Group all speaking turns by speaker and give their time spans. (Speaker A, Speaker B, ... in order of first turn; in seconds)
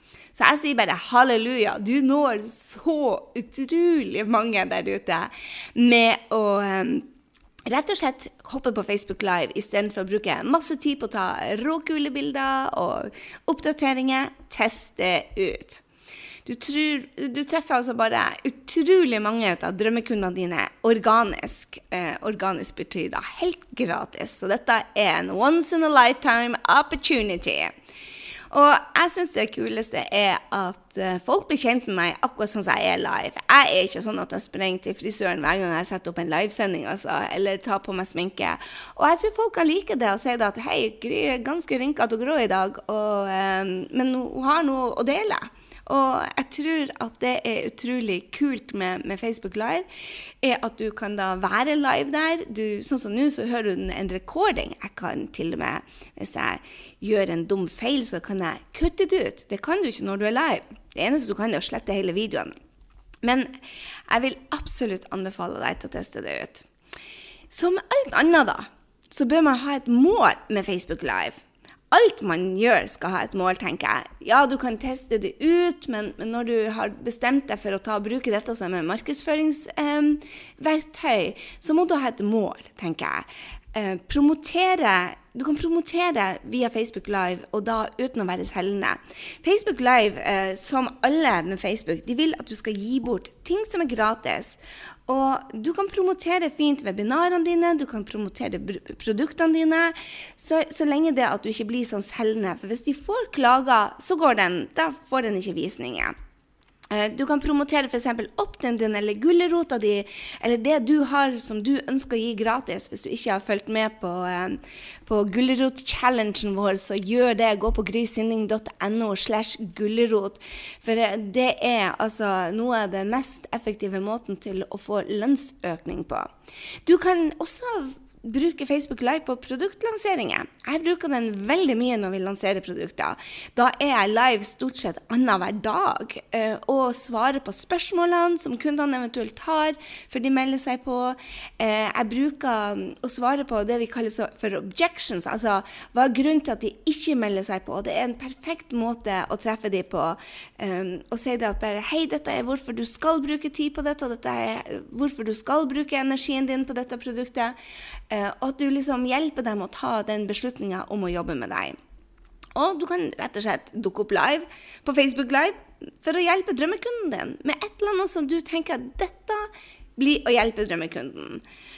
Speaker A: 0.3-7.1, 7.7-15.8, 16.4-27.7, 28.5-49.8, 50.4-62.5, 63.2-63.5, 64.1-66.7, 67.5-71.4, 71.9-106.1, 106.9-126.3, 126.8-157.5, 158.1-161.8, 162.6-171.4